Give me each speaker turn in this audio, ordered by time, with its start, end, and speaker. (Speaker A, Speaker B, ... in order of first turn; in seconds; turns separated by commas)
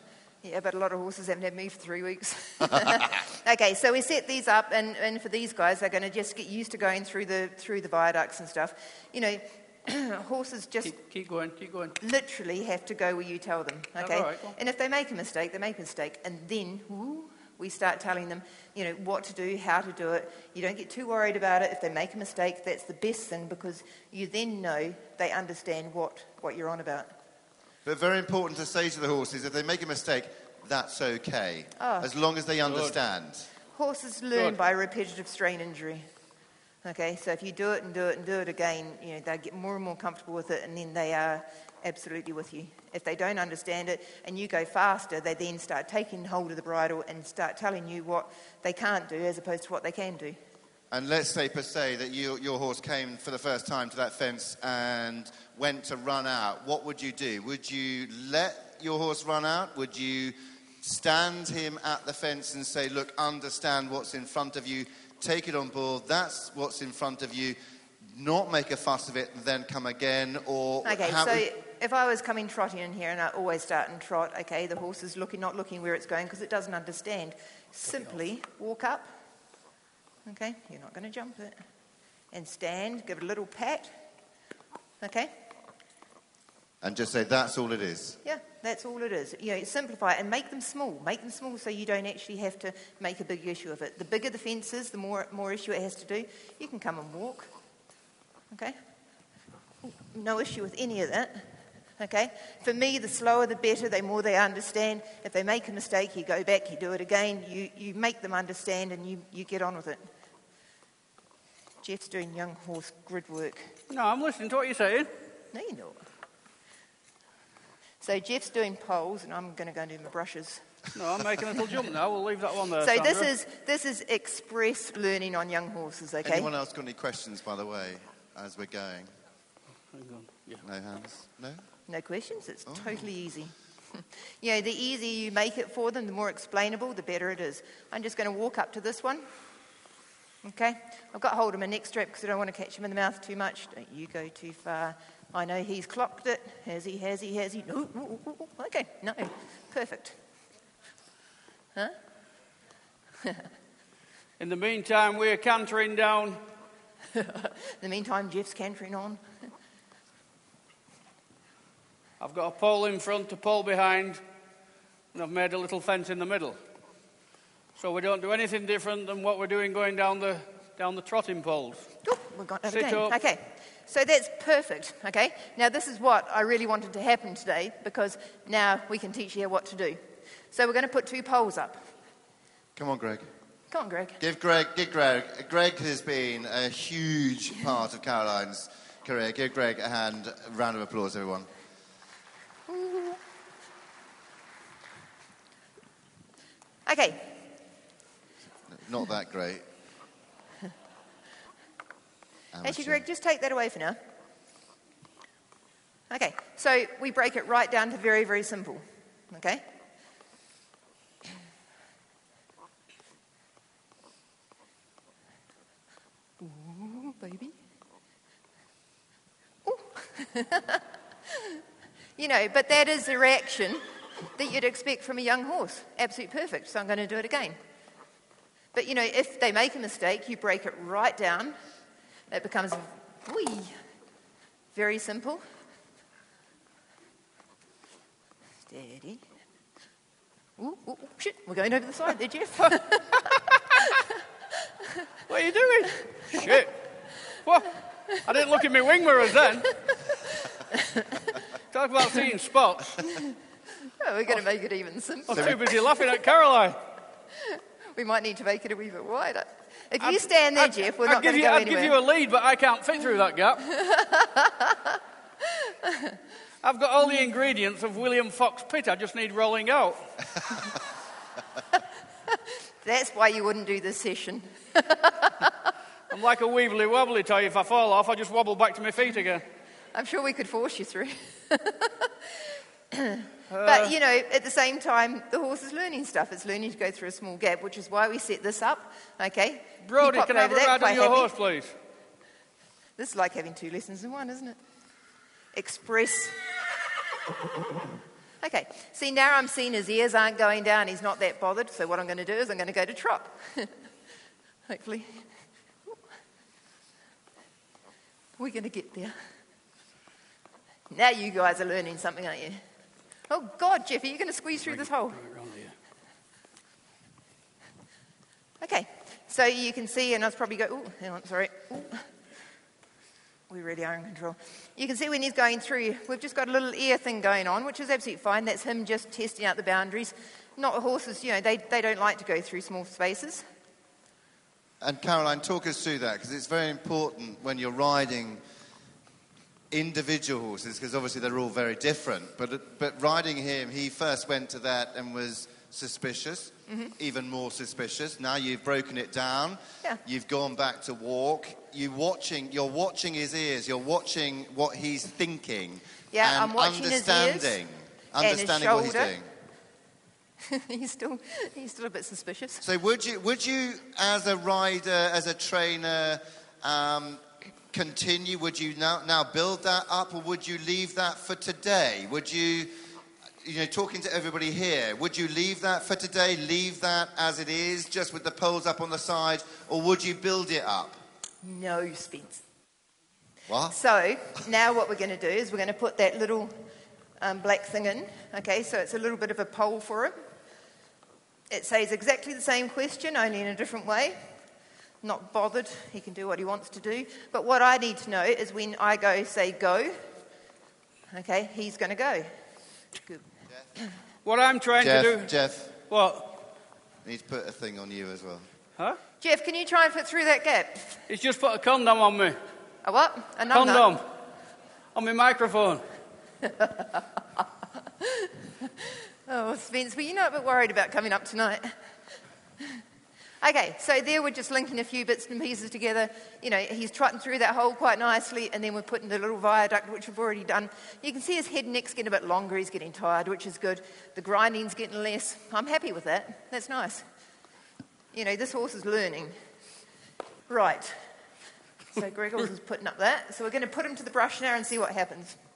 Speaker A: 0.4-10.9, Speaker B: 10.8-12.0, Speaker A: 12.0-27.1, Speaker B: 14.0-14.5, Speaker C: 27.8-33.5, Speaker A: 31.8-32.1, Speaker B: 32.7-32.9, Speaker A: 33.7-36.1, Speaker A: 36.8-50.4, Speaker C: 50.9-71.4, Speaker A: 70.8-79.1, Speaker A: 80.2-81.6, Speaker A: 82.3-84.0, Speaker A: 85.0-85.3, Speaker C: 86.8-88.2, Speaker A: 88.2-97.5, Speaker A: 98.5-98.8, Speaker A: 99.8-110.0, Speaker A: 111.8-113.7, Speaker B: 113.9-115.1, Speaker A: 115.5-116.0, Speaker A: 118.0-120.7, Speaker B: 120.9-123.3, Speaker A: 122.8-126.5, Speaker C: 126.2-129.1, Speaker B: 129.9-130.6, Speaker C: 130.6-131.6, Speaker A: 131.9-139.3, Speaker C: 132.7-133.0, Speaker A: 140.4-150.2, Speaker B: 154.4-156.4, Speaker A: 157.1-159.2, Speaker B: 162.2-164.2, Speaker B: 165.1-166.6, Speaker B: 167.8-171.9, Speaker A: 172.0-181.9, Speaker B: 172.7-173.2, Speaker C: 182.8-183.3, Speaker A: 183.7-184.2, Speaker C: 184.2-191.5, Speaker A: 192.7-193.2, Speaker A: 196.8-197.3, Speaker C: 198.7-199.6, Speaker C: 202.5-203.0, Speaker A: 202.6-204.0, Speaker A: 206.1-209.6, Speaker A: 216.4-217.5, Speaker A: 219.6-221.6, Speaker A: 222.2-227.6, Speaker A: 228.7-231.6, Speaker A: 232.3-233.8, Speaker A: 234.7-235.4, Speaker A: 238.7-239.2, Speaker A: 240.6-244.0, Speaker B: 245.3-249.7, Speaker A: 250.7-251.2, Speaker B: 251.7-253.0, Speaker A: 253.9-256.0, Speaker B: 255.3-256.8, Speaker A: 257.4-261.9, Speaker B: 260.0-263.7, Speaker A: 263.7-264.9, Speaker A: 265.6-266.2, Speaker B: 266.6-270.6, Speaker A: 272.8-275.7, Speaker B: 276.1-279.4, Speaker A: 279.9-291.3, Speaker B: 283.5-283.9, Speaker B: 289.8-291.8, Speaker A: 293.0-294.6, Speaker A: 295.5-296.5, Speaker A: 298.4-303.7, Speaker A: 304.7-305.3, Speaker A: 308.4-309.2, Speaker A: 310.9-312.6, Speaker A: 313.3-315.2, Speaker B: 314.6-315.7, Speaker A: 318.6-322.1, Speaker A: 323.5-333.4, Speaker C: 334.8-338.4, Speaker C: 339.7-359.3, Speaker A: 356.1-357.6, Speaker A: 358.2-359.1, Speaker A: 360.4-362.6, Speaker C: 362.6-372.7, Speaker C: 373.4-381.0, Speaker A: 381.4-382.4, Speaker C: 383.5-383.7, Speaker A: 383.7-386.6, Speaker A: 387.2-390.2, Speaker A: 391.5-394.3, Speaker A: 395.0-400.0, Speaker A: 401.1-402.3, Speaker B: 404.2-405.3, Speaker C: 404.8-405.7, Speaker B: 405.9-406.4, Speaker C: 407.0-408.4, Speaker A: 409.2-411.0, Speaker B: 411.1-412.4, Speaker A: 412.8-413.9, Speaker B: 413.5-414.1, Speaker B: 414.9-415.8, Speaker A: 416.4-417.0, Speaker A: 418.0-421.7, Speaker A: 423.4-437.0, Speaker A: 438.1-439.3, Speaker A: 440.5-441.0, Speaker A: 441.9-445.4